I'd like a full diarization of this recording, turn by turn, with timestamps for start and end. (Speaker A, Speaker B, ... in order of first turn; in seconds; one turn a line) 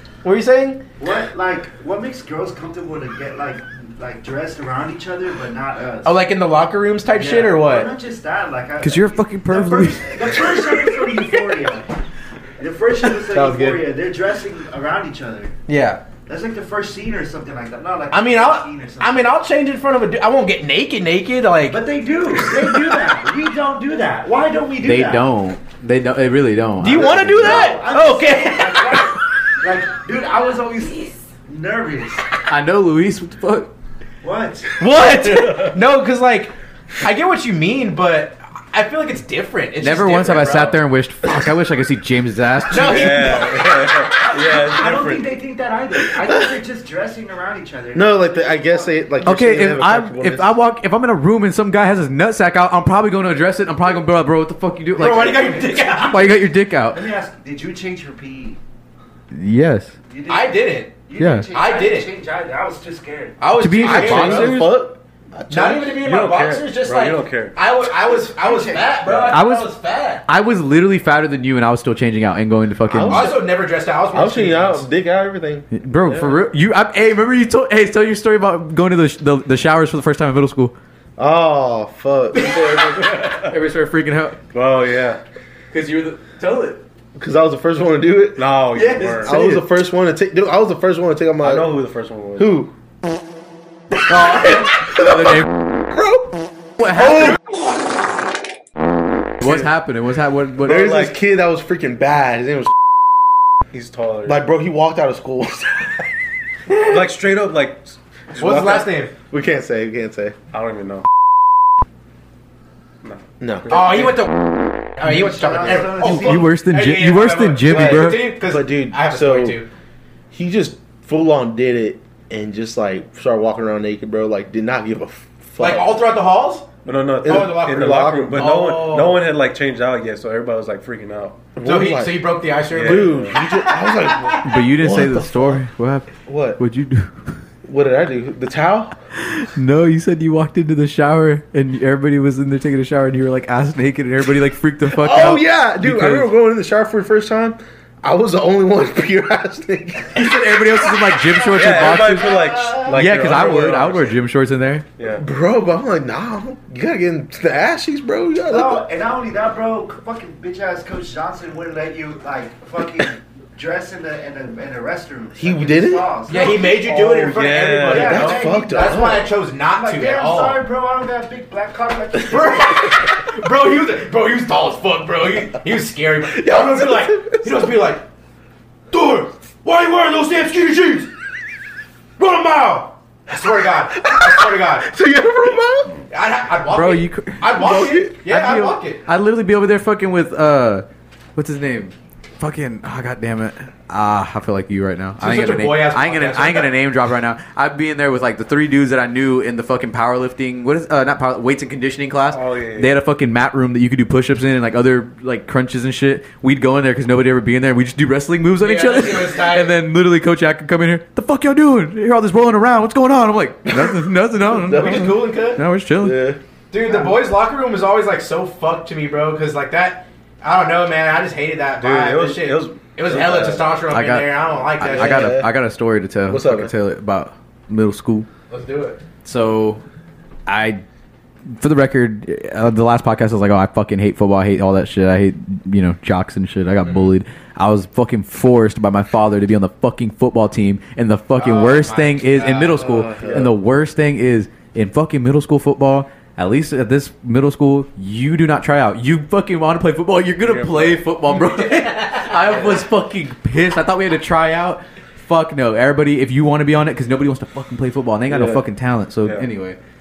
Speaker A: 0.2-0.8
Speaker B: 1.0-6.2
Speaker A: 6.0-7.9
Speaker B: 7.1-11.9
Speaker C: 8.8-10.4
Speaker B: 12.6-15.5
Speaker A: 15.7-16.0
Speaker B: 16.3-19.3
Speaker A: 18.1-21.8
Speaker B: 21.7-25.3
Speaker A: 22.4-22.9
Speaker C: 24.8-27.7
Speaker A: 26.8-29.1
Speaker B: 26.9-32.3
Speaker C: 32.5-33.7
Speaker B: 34.2-34.8
Speaker A: 34.8-40.8
Speaker C: 39.8-43.4
Speaker A: 42.7-43.7
Speaker D: 42.8-45.3
Speaker B: 43.3-49.0
Speaker E: 47.9-50.5
Speaker C: 49.2-57.1
Speaker A: 55.0-56.5
Speaker B: 56.9-58.6
Speaker C: 59.3-59.9
Speaker B: 60.1-63.5
Speaker A: 60.3-61.0
Speaker C: 61.2-61.5
Speaker A: 61.5-62.1
Speaker A: 63.4-64.6
Speaker C: 63.5-64.7
Speaker E: 63.8-66.0
Speaker D: 64.3-64.6
Speaker A: 65.5-70.2
Speaker D: 66.0-67.5
Speaker B: 68.0-69.4
Speaker C: 69.3-69.7
Speaker C: 70.2-73.3
Speaker E: 72.8-73.5
Speaker A: 73.1-74.9
Speaker E: 74.1-76.2
Speaker C: 75.7-80.7
Speaker E: 81.2-82.8
Speaker C: 82.3-84.4
Speaker D: 84.5-85.2
Speaker C: 85.7-86.8
Speaker E: 87.2-88.6
Speaker D: 88.3-89.3
Speaker C: 88.7-89.6
Speaker E: 89.2-91.8
Speaker D: 91.4-92.6
Speaker E: 92.4-92.7
Speaker C: 94.1-95.6
Speaker E: 94.8-97.3
Speaker C: 99.4-100.9
Speaker E: 100.6-102.7
Speaker D: 100.7-101.2
Speaker D: 103.7-104.4
Speaker E: 104.2-106.0
Speaker D: 106.7-108.9
Speaker A: 108.3-109.1
Speaker E: 109.3-110.3
Speaker D: 110.5-111.0
Speaker D: 113.0-114.1
Speaker E: 113.4-114.2
Speaker A: 113.7-119.7
Speaker B: 115.0-116.5
Speaker C: 116.0-118.3
Speaker E: 117.6-119.6
Speaker E: 120.3-126.0
Speaker A: 125.6-126.7
Speaker D: 126.8-131.4
Speaker E: 127.2-128.5
Speaker A: 127.2-129.2
Speaker E: 131.6-135.6
Speaker A: 131.6-134.3
Speaker D: 132.7-133.4
Speaker C: 134.4-137.3
Speaker E: 136.2-136.6
Speaker E: 137.6-138.9
Speaker C: 139.2-146.3
Speaker E: 144.8-150.4
Speaker C: 150.1-154.8
Speaker D: 151.5-154.2
Speaker D: 155.0-155.2
Speaker E: 155.2-158.8
Speaker B: 158.5-167.1
Speaker E: 165.4-166.1
Speaker A: 166.3-170.6
Speaker E: 166.8-167.3
Speaker D: 167.2-168.2
Speaker E: 167.9-169.3
Speaker B: 167.9-172.9
Speaker A: 172.3-178.0
Speaker E: 176.2-177.8
Speaker A: 178.9-181.1
Speaker A: 182.2-184.9
Speaker E: 184.0-186.0
Speaker A: 186.1-189.0
Speaker C: 186.7-190.8
Speaker E: 187.5-188.2
Speaker C: 191.3-216.2
Speaker A: 195.2-196.7
Speaker D: 202.3-202.9
Speaker A: 208.6-209.7
Speaker E: 213.7-215.2
Speaker A: 214.7-215.6
Speaker E: 216.0-216.4
Speaker A: 216.7-225.3
Speaker D: 221.8-223.7
Speaker C: 223.9-228.3
Speaker E: 224.9-225.5
Speaker E: 226.3-226.7
Speaker A: 228.5-229.0
Speaker C: 229.2-229.8
Speaker C: 230.5-230.8
Speaker C: 231.5-259.8
Speaker A: 241.3-242.6
Speaker B: 242.7-243.4
Speaker E: 242.8-243.5
Speaker D: 250.4-251.0
Speaker A: 251.9-252.6
Speaker E: 258.3-258.6